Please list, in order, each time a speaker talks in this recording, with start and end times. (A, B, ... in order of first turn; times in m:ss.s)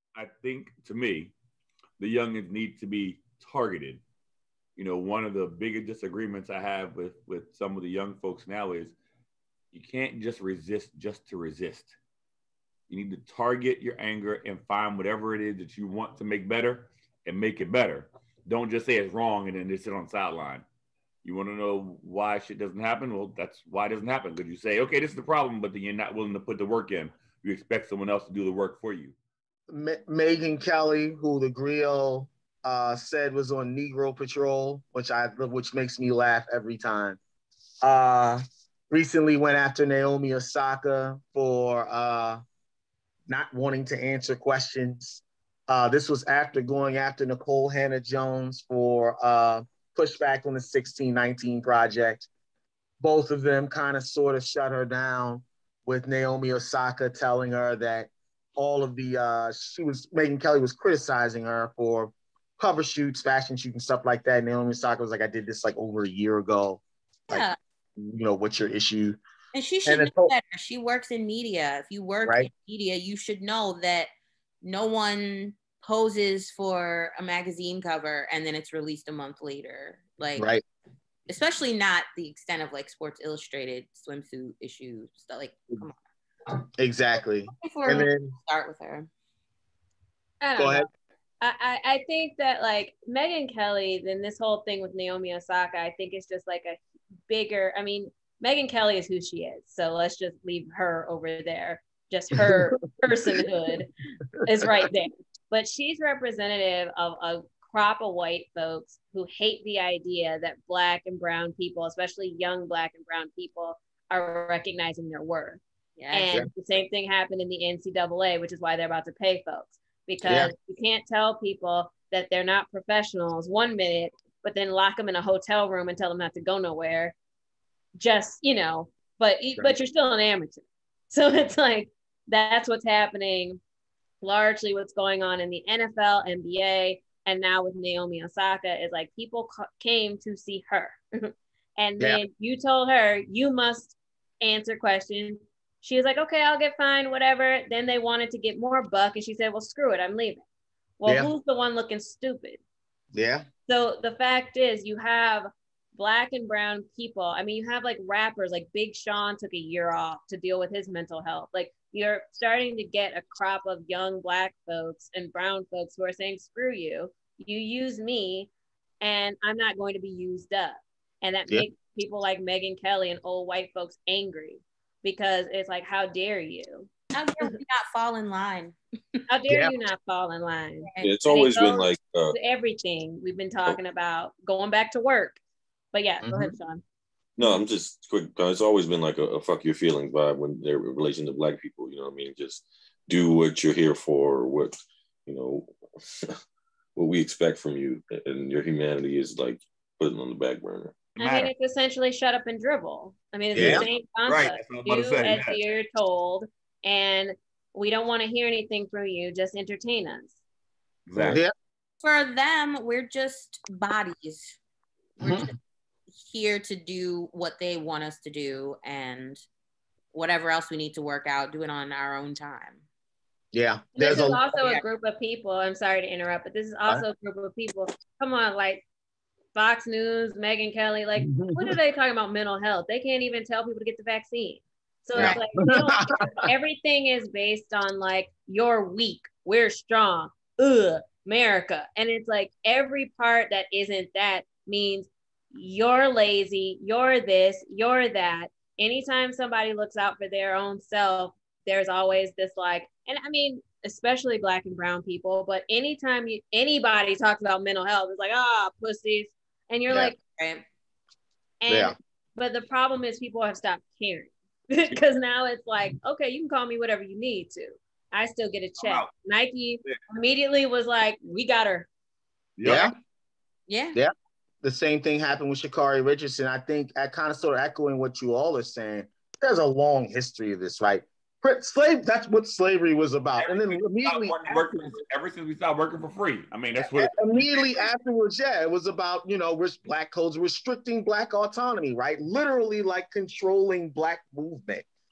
0:00.1-0:01.3 A
0:02.0-0:04.0 A
0:04.8-0:08.9 A
0:09.7-0:11.9 A
0:12.9-0:20.6 A
0:21.2-0:29.1 A
0:29.7-0:37.2 B
0:37.8-0:42.4 B
0:43.3-0:52.3 B
0:53.0-1:09.2 B
1:07.3-1:07.6 C
1:09.5-1:14.1 C
1:09.8-1:10.3 B
1:12.2-1:12.5 B
1:14.6-1:20.5 C
1:20.4-1:20.6 B
1:21.3-1:26.0 C
1:26.8-1:28.3 B
1:27.6-1:29.1 C
1:30.4-1:30.9 D
1:30.6-1:30.9 B
1:31.4-2:07.1 D
1:42.4-1:42.8 B
1:56.0-1:56.3 C
2:00.2-2:00.5 B
2:08.0-2:13.6 D
2:14.2-2:30.4 D
2:31.0-2:32.6 D
2:33.1-2:33.4 B
2:33.7-2:48.5 D
2:49.0-2:56.9 D
2:57.1-2:59.2 C
2:59.3-3:05.4 D
2:59.5-2:59.7 B
3:00.9-3:01.3 C
3:01.0-3:02.4 E
3:05.9-3:06.8 D
3:06.2-3:06.5 B
3:07.4-3:16.3 E
3:17.0-3:21.0 E
3:21.2-3:21.5 A
3:21.2-3:30.4 D
3:23.5-3:23.8 B
3:23.5-3:25.6 A
3:31.1-3:31.4 A
3:31.2-3:31.5 B
3:32.0-3:34.6 C
3:35.2-3:35.5 C
3:35.2-3:35.5 B
3:36.1-3:39.4 C
3:40.1-3:42.8 C
3:43.5-3:44.4 B
3:44.0-3:48.8 D
3:44.5-3:44.8 C
3:49.5-4:20.2 D
3:51.2-3:51.8 B
3:55.2-3:56.1 B
4:19.9-4:20.1 B
4:20.4-4:20.6 C
4:21.6-4:31.9 D
4:21.7-4:21.9 B
4:28.8-4:29.1 A
4:32.6-4:32.9 A
4:32.6-4:32.9 B
4:33.7-4:34.0 C
4:33.9-4:44.9 B
4:43.4-4:47.9 A
4:46.8-4:54.8 B